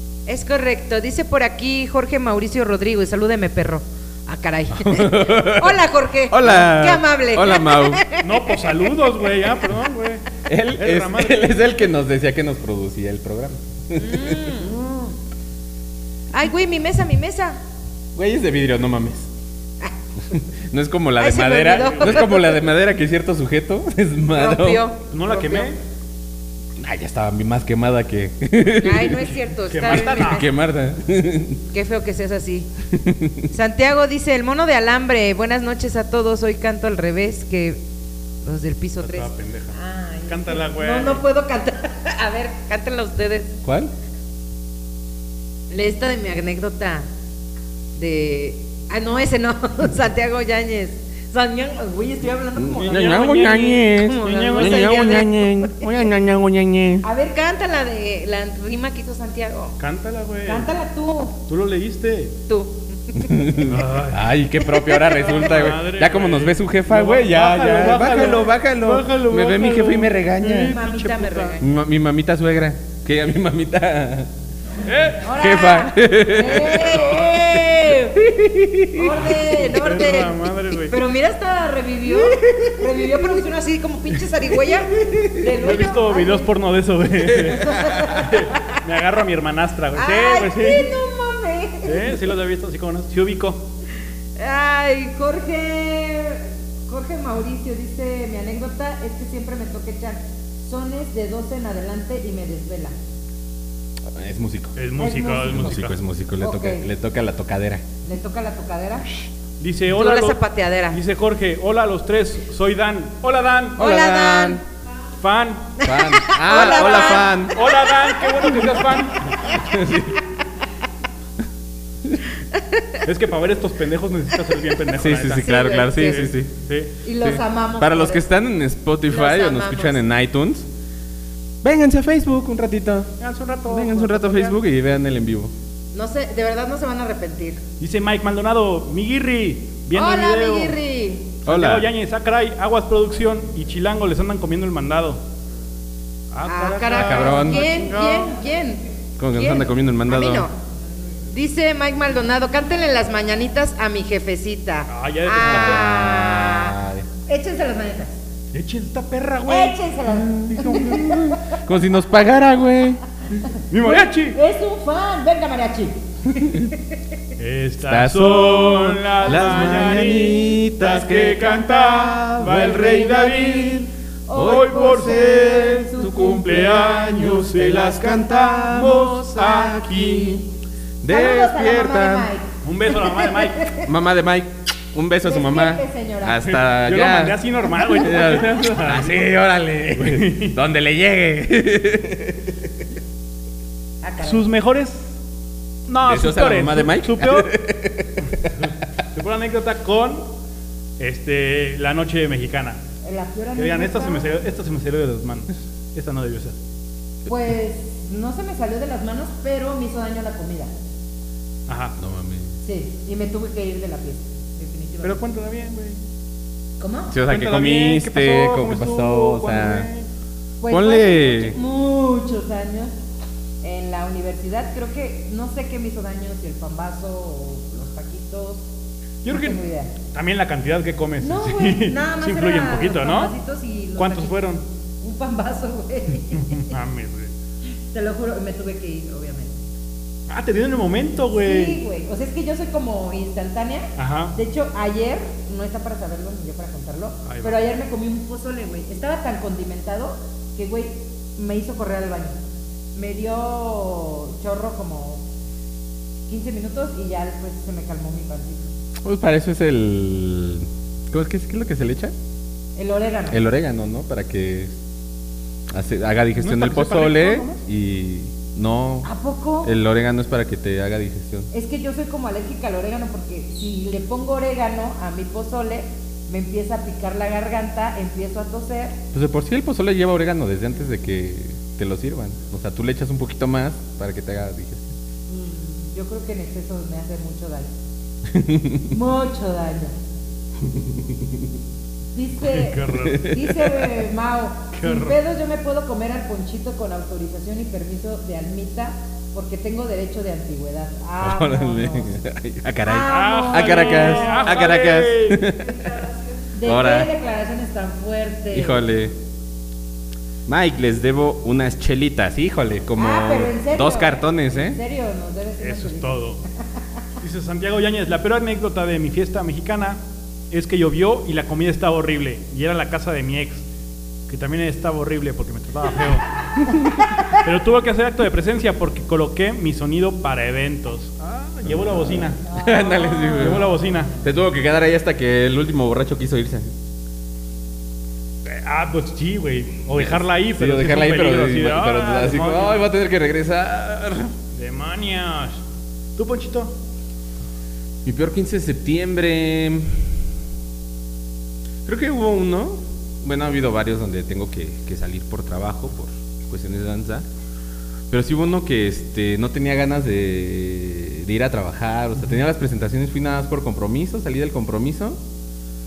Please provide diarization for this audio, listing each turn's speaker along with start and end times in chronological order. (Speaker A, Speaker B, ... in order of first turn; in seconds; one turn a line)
Speaker A: 0.3-8.9
Speaker B: 4.7-8.0
Speaker C: 8.2-11.6
Speaker B: 10.5-14.9
Speaker A: 13.9-15.1
Speaker A: 16.3-17.6
Speaker B: 18.2-19.3
Speaker B: 20.3-24.9
Speaker A: 21.2-22.6
Speaker C: 21.9-22.2
Speaker A: 24.3-25.7
Speaker C: 25.1-25.8
Speaker B: 26.8-29.3
Speaker A: 28.8-30.5
Speaker C: 29.7-30.5
Speaker B: 29.9-31.6
Speaker A: 31.7-32.7
Speaker B: 32.9-33.5
Speaker A: 33.5-37.8
Speaker A: 38.4-43.5
Speaker C: 39.0-39.8
Speaker C: 40.3-41.2
Speaker B: 43.6-43.9
Speaker A: 45.7-47.1
Speaker A: 48.0-56.0
Speaker B: 52.6-57.0
Speaker C: 52.8-55.3
Speaker A: 57.0-59.8
Speaker C: 59.8-60.7
Speaker A: 60.5-61.4
Speaker C: 61.5-62.4
Speaker A: 62.5-63.6
Speaker B: 63.2-70.8
Speaker C: 63.6-64.3
Speaker A: 64.8-65.2
Speaker C: 65.1-71.6
Speaker A: 70.6-71.7
Speaker B: 71.6-74.3
Speaker C: 74.8-75.3
Speaker A: 75.2-78.2
Speaker B: 75.3-79.3
Speaker A: 78.9-86.5
Speaker C: 79.3-81.0
Speaker B: 85.0-85.3
Speaker C: 85.6-90.9
Speaker A: 87.4-88.8
Speaker A: 90.0-92.2
Speaker C: 91.8-93.7
Speaker A: 94.4-103.0
Speaker B: 104.1-104.8
Speaker C: 104.8-106.0
Speaker A: 105.0-105.7
Speaker B: 105.5-107.8
Speaker A: 106.4-106.9
Speaker A: 108.0-109.1
Speaker C: 109.6-113.9
Speaker A: 109.9-111.0
Speaker A: 113.8-114.6
Speaker B: 113.8-114.6
Speaker C: 115.2-115.8
Speaker A: 115.8-118.5
Speaker B: 115.8-117.6
Speaker C: 116.8-119.6
Speaker B: 119.5-120.2
Speaker A: 122.5-122.8
Speaker C: 123.0-126.9
Speaker B: 124.9-126.5
Speaker A: 125.3-126.3
Speaker A: 127.0-128.2
Speaker B: 127.2-130.7
Speaker A: 129.1-130.0
Speaker B: 131.6-135.5
Speaker C: 133.2-134.6
Speaker A: 135.9-137.6
Speaker C: 137.8-140.8
Speaker A: 139.9-141.3
Speaker C: 141.4-145.2
Speaker B: 141.5-141.9
Speaker C: 146.3-148.4
Speaker A: 146.4-148.8
Speaker B: 146.9-147.7
Speaker B: 149.2-150.5
Speaker A: 149.3-150.6
Speaker A: 151.3-156.8
Speaker C: 154.9-156.1
Speaker B: 155.4-157.1
Speaker A: 157.3-158.2
Speaker C: 158.5-159.9
Speaker A: 159.4-161.6
Speaker B: 160.1-163.4
Speaker C: 163.7-164.4
Speaker A: 163.8-167.0
Speaker B: 166.4-166.7
Speaker C: 167.4-173.8
Speaker B: 167.8-180.4
Speaker A: 172.5-173.7
Speaker A: 174.3-177.4
Speaker C: 174.3-180.3
Speaker B: 181.0-182.3
Speaker A: 181.1-183.9
Speaker C: 182.6-183.7
Speaker B: 183.8-192.7
Speaker A: 185.2-186.5
Speaker C: 186.5-189.3
Speaker C: 189.9-190.6
Speaker A: 194.0-194.5
Speaker C: 194.2-195.1
Speaker C: 195.9-197.5
Speaker B: 196.0-198.5
Speaker C: 198.5-200.3
Speaker C: 201.0-202.8
Speaker A: 203.0-204.3
Speaker C: 203.6-206.6
Speaker A: 207.3-210.7
Speaker C: 211.7-212.0
Speaker B: 212.0-212.5
Speaker A: 212.6-215.2
Speaker C: 215.0-216.0
Speaker A: 216.8-217.2
Speaker B: 217.1-219.9
Speaker C: 217.3-220.1
Speaker A: 220.6-222.9
Speaker B: 220.7-221.6
Speaker A: 223.6-228.7
Speaker C: 229.2-233.3
Speaker A: 229.3-229.9
Speaker A: 231.2-234.4
Speaker C: 234.0-234.6
Speaker A: 235.0-236.8
Speaker C: 236.3-237.3
Speaker A: 237.9-239.5
Speaker C: 240.3-241.8
Speaker A: 241.3-252.4
Speaker C: 244.0-244.4
Speaker C: 247.2-247.7
Speaker A: 252.9-255.2
Speaker A: 256.3-258.7
Speaker B: 259.0-262.1
Speaker A: 262.8-263.4
Speaker B: 263.3-264.7
Speaker B: 265.7-269.1
Speaker C: 266.4-267.6
Speaker A: 269.0-269.7
Speaker B: 269.6-271.5
Speaker A: 271.5-279.0
Speaker B: 279.1-284.9
Speaker A: 285.3-287.7
Speaker B: 288.3-288.9
Speaker A: 288.9-289.9
Speaker B: 290.7-291.5
Speaker A: 292.1-302.2
Speaker C: 292.4-293.3
Speaker B: 293.0-293.9
Speaker C: 294.7-295.2
Speaker B: 301.2-305.9
Speaker A: 302.9-304.6
Speaker C: 303.1-305.5
Speaker A: 306.5-308.9
Speaker B: 306.6-307.1
Speaker B: 308.5-309.1
Speaker B: 310.5-314.8
Speaker A: 313.0-316.2
Speaker C: 315.6-316.4
Speaker C: 317.2-323.6
Speaker C: 324.3-326.3
Speaker B: 326.6-327.2
Speaker C: 327.2-332.4
Speaker B: 331.6-333.7
Speaker A: 332.4-333.8
Speaker C: 333.4-334.1
Speaker B: 334.2-336.7
Speaker C: 338.4-342.8
Speaker B: 339.9-344.3
Speaker C: 344.6-345.6
Speaker C: 346.2-346.8
Speaker B: 348.1-350.2
Speaker B: 351.9-357.3
Speaker B: 358.1-365.2